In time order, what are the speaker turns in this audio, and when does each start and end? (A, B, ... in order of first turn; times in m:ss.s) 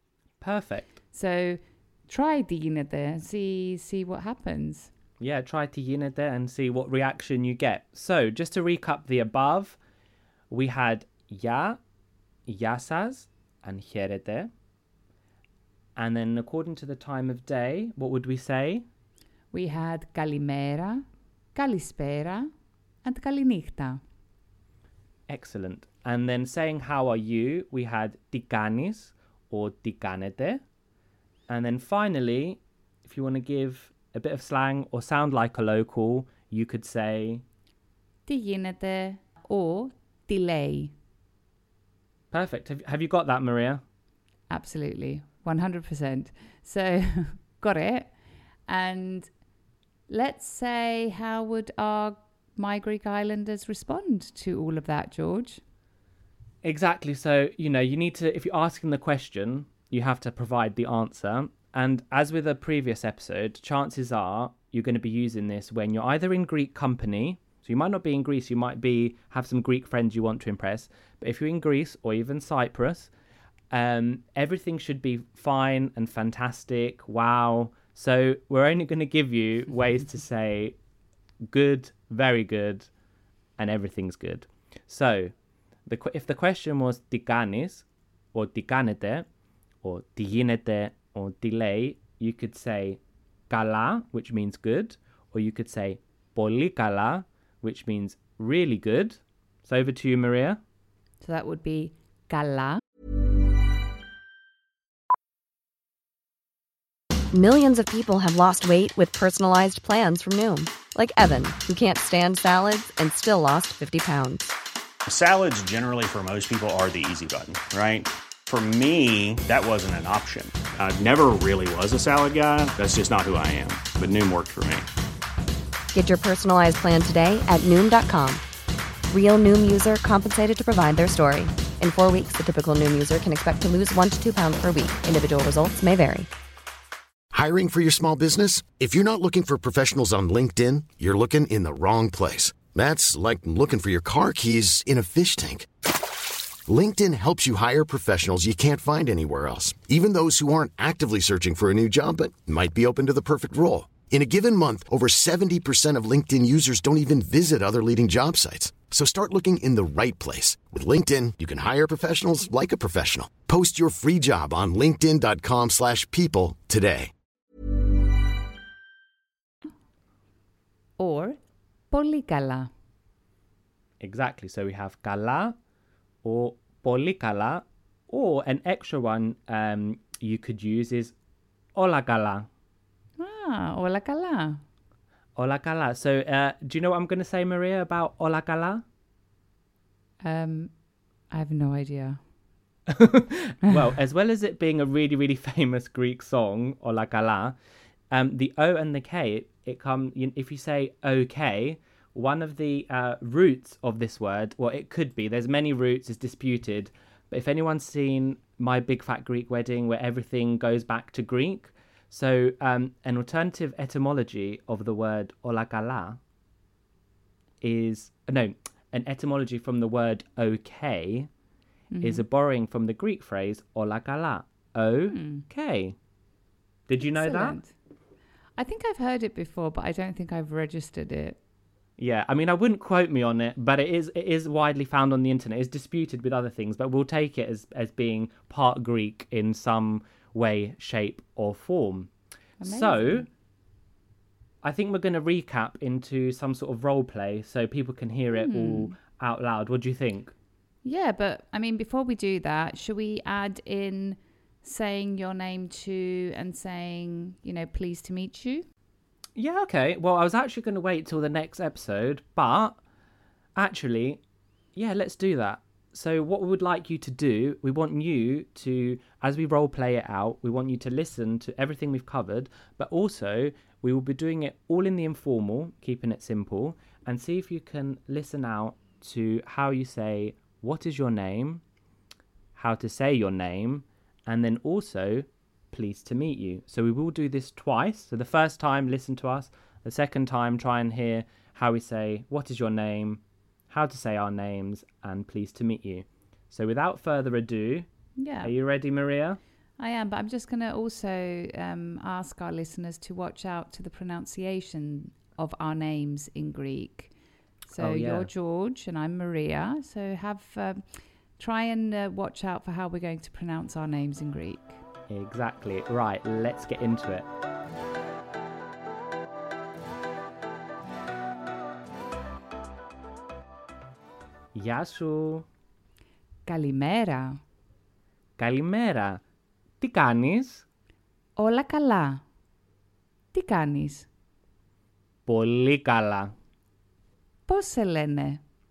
0:00.4-0:01.0 A
0:01.1-0:04.9 B
0:05.2-0:09.8 A
0:10.5-0:11.8 A
0:12.5-0:14.5 A
0:16.0-0:18.8 A
0:19.5-0:22.5 B
0:23.0-0:24.0 B
0:25.3-0:30.6 A
0:31.5-0:37.4 A
0:38.2-0:40.9 B
0:42.3-0:43.8 A
0:44.5-0:48.1 B
0:48.7-0:49.3 B
0:50.1-0:55.6 B
0:56.6-1:13.1 A
1:13.7-1:20.8 A
1:21.5-1:22.9 A
1:23.6-1:25.3 A
1:25.9-1:29.2 A
1:29.8-1:40.6 A
1:41.2-1:42.8 B
1:47.3-1:54.5 C
1:55.1-2:04.9 D
2:05.9-2:08.4 C
2:09.1-2:16.3 C
2:17.3-2:25.6 E
2:26.7-2:47.1 E
2:51.0-2:51.4 B
2:51.9-2:52.7 B
2:54.0-2:55.5 A
2:56.2-3:01.1 A
3:01.7-3:02.5 A
3:03.2-3:04.6 B
3:05.4-3:08.8 A
3:10.2-3:10.7 B
3:11.3-3:12.2 B
3:13.0-3:17.6 A
3:18.1-3:36.2 A
3:37.6-3:41.3 A
3:41.9-3:42.2 B
3:42.0-3:46.0 A
3:45.1-3:45.4 B
3:46.9-3:47.6 A
3:47.1-3:47.7 B
3:48.6-3:51.4 B
3:52.0-4:02.1 A
4:02.6-4:03.3 B
4:02.6-4:03.3 A
4:04.6-4:10.3 A
4:08.3-4:08.9 B
4:10.8-4:18.6 B
4:19.4-4:22.8 A
4:23.6-4:24.2 A
4:24.8-4:41.6 A
4:42.6-4:57.9 A
4:58.2-4:58.5 B
4:58.4-4:59.4 A
4:59.8-5:07.1 B
5:07.6-5:14.8 B
5:07.8-5:08.3 A
5:15.1-5:17.2 A
5:24.5-5:25.4 A
5:26.4-5:27.4 B
5:28.4-5:29.2 A
5:29.8-5:30.6 A
5:31.4-5:32.2 B
5:33.3-5:34.1 B
5:35.3-5:36.3 A
5:37.5-5:38.4 B